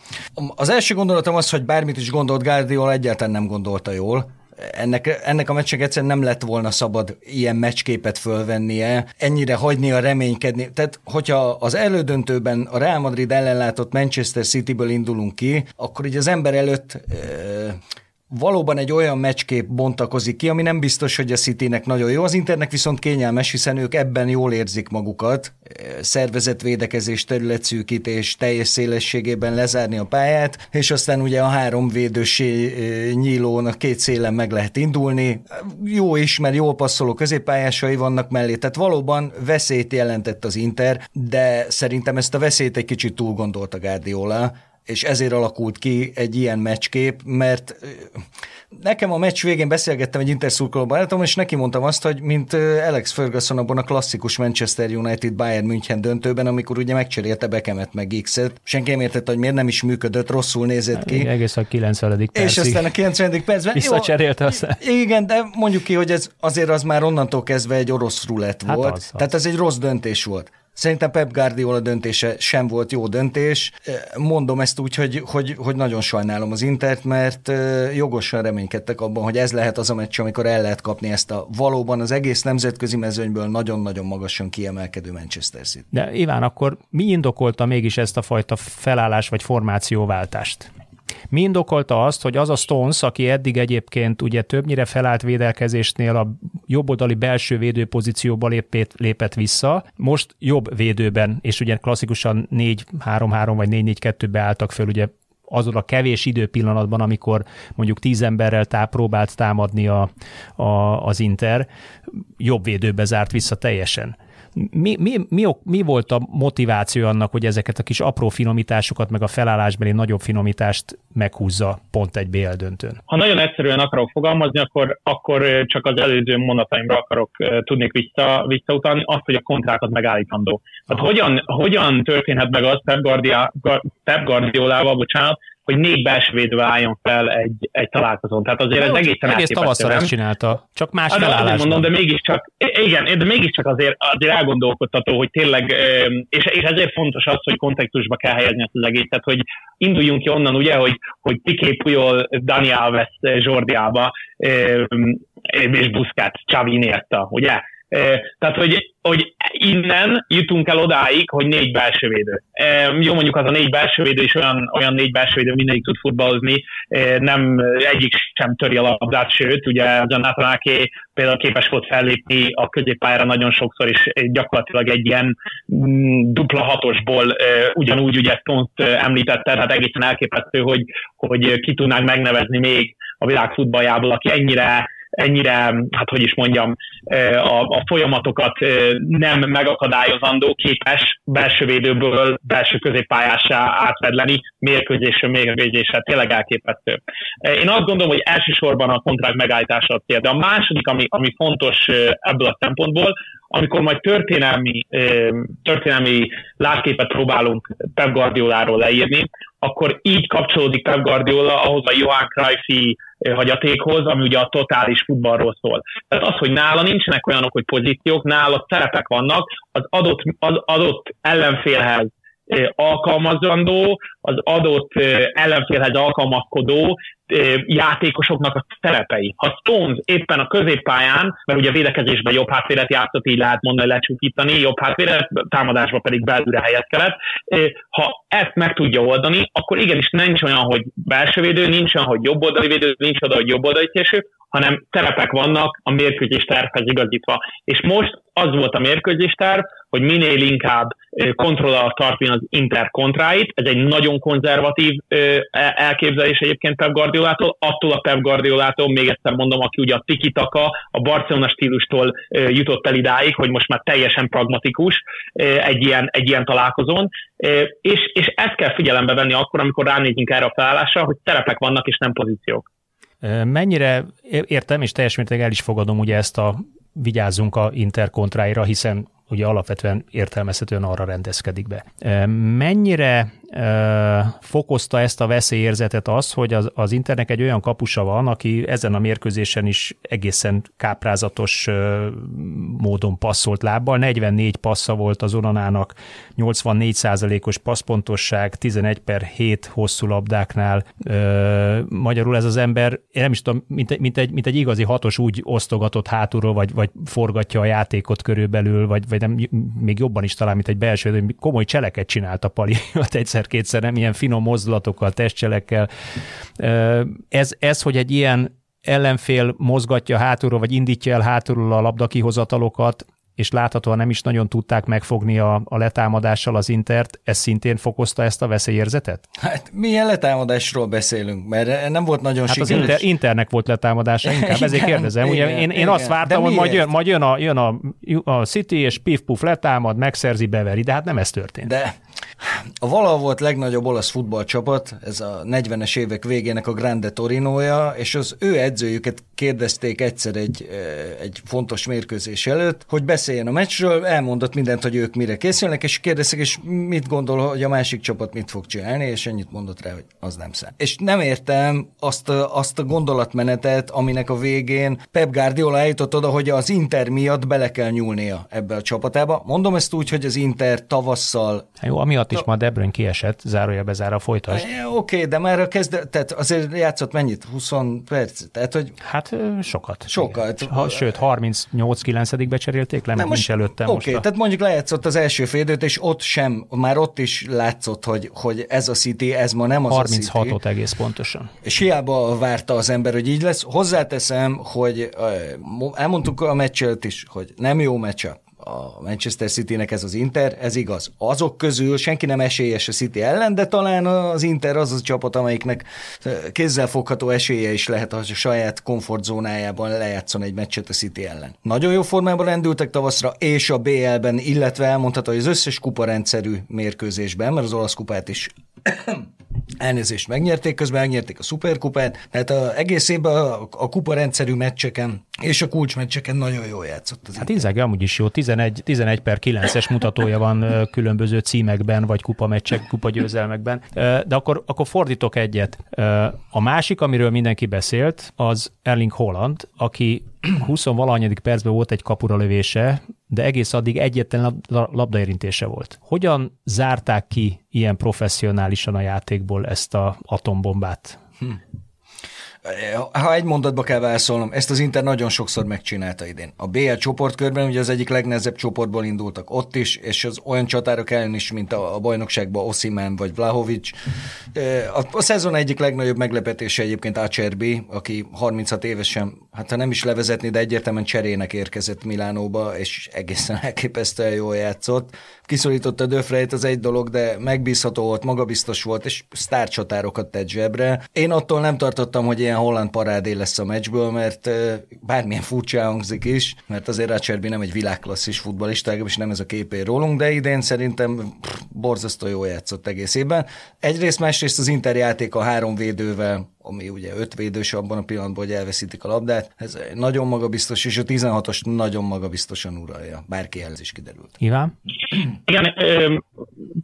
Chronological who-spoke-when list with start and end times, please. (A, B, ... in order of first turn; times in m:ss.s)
0:00.4-0:17.8 A
0:18.3-1:01.3 A
1:01.0-1:02.9 B
1:02.3-1:25.9 A
1:03.8-1:04.8 B
1:08.7-1:09.2 B
1:25.9-1:30.7 B
1:31.3-1:51.7 B
1:52.4-2:03.0 B
2:03.1-2:20.1 C
2:18.8-2:21.9 B
2:21.1-4:32.7 C
4:33.2-5:15.9 B
5:16.6-5:29.2 B
5:29.4-5:33.0 A
5:32.5-5:41.7 B
5:34.2-5:36.8 A
5:41.7-6:11.7 A
6:11.8-6:14.7 B
6:14.5-6:19.0 A
6:19.0-6:24.2 B
6:20.1-6:21.0 A
6:23.2-6:30.6 A
6:29.9-6:31.5 B
6:31.6-6:59.3 A
6:59.8-7:07.6 A
7:07.4-7:31.2 B
7:32.6-7:44.0 A
7:44.5-8:24.4 A
8:24.4-8:24.7 B
8:25.5-8:26.2 C